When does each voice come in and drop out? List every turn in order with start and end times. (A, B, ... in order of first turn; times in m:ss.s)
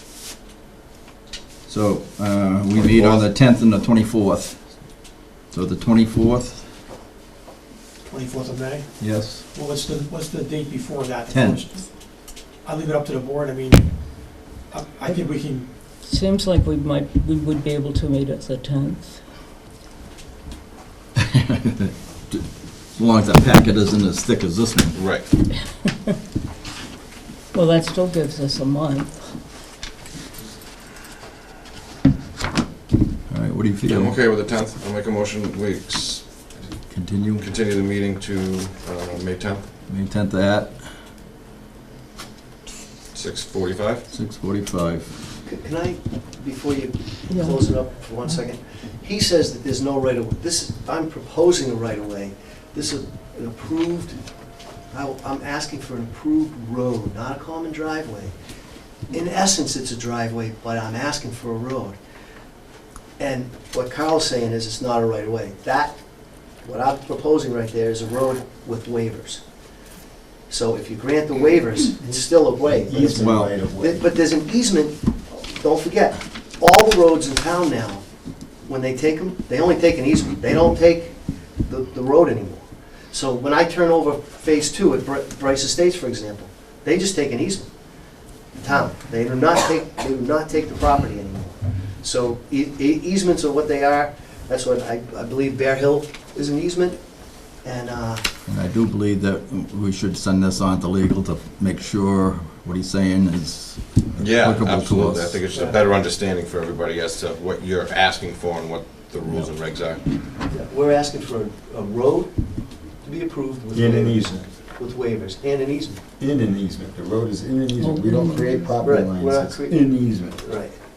0:01.6-0:06.7 A
0:02.7-0:03.2 B
0:08.0-0:11.9 C
0:09.0-0:09.4 A
0:11.3-0:11.6 A
0:12.6-0:13.9 C
0:14.7-0:15.9 C
0:15.9-0:19.2 D
0:21.2-0:25.0 A
0:24.9-0:25.2 B
0:27.5-0:29.4 D
0:33.3-0:34.2 A
0:33.9-0:36.7 B
0:36.9-0:37.4 A
0:37.4-0:39.6 B
0:39.9-0:40.8 A
0:43.1-0:44.0 B
0:44.1-0:45.2 A
0:45.4-0:54.2 E
0:47.3-0:47.7 D
0:54.9-0:58.4 E
0:59.1-1:02.0 E
1:03.2-1:06.0 E
1:06.6-1:09.4 E
1:10.5-1:18.0 E
1:12.7-1:14.0 F
1:13.0-1:13.5 A
1:18.6-1:27.7 E
1:28.6-1:38.2 E
1:38.5-1:45.4 A
1:44.2-1:50.0 B
1:50.5-1:52.4 E
1:53.0-1:56.0 E
1:53.7-1:54.4 F
1:56.2-2:00.4 F
1:57.8-1:58.8 D
1:58.8-2:00.8 E